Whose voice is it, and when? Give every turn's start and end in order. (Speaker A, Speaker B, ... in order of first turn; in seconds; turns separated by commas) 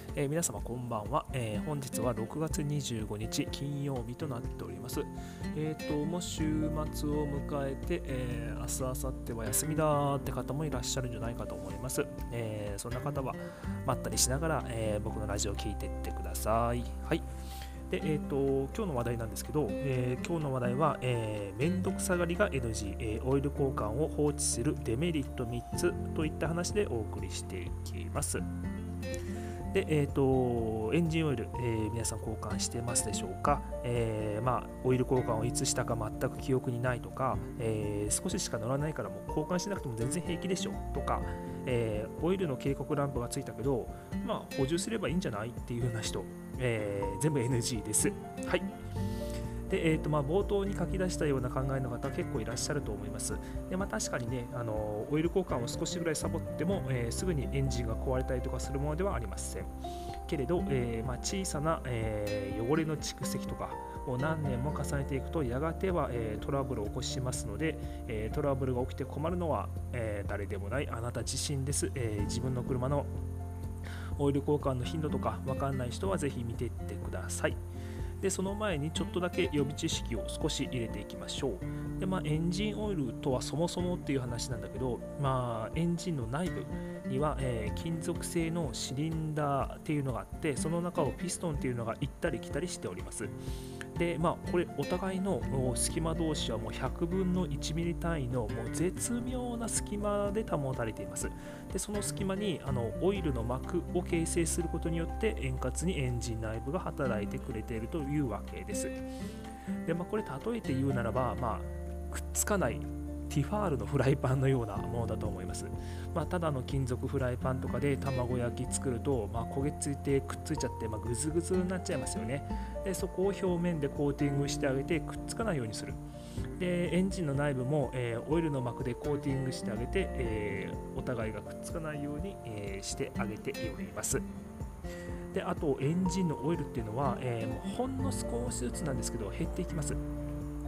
Speaker A: 0.1-17.3, Speaker A: 17.9-28.5, Speaker A: 29.7-48.7, Speaker A: 49.7-59.7, Speaker A: 60.3-73.1, Speaker A: 74.2-77.6, Speaker A: 78.2-93.4, Speaker A: 94.0-109.0, Speaker A: 109.8-126.0, Speaker A: 126.6-134.2, Speaker A: 135.3-140.0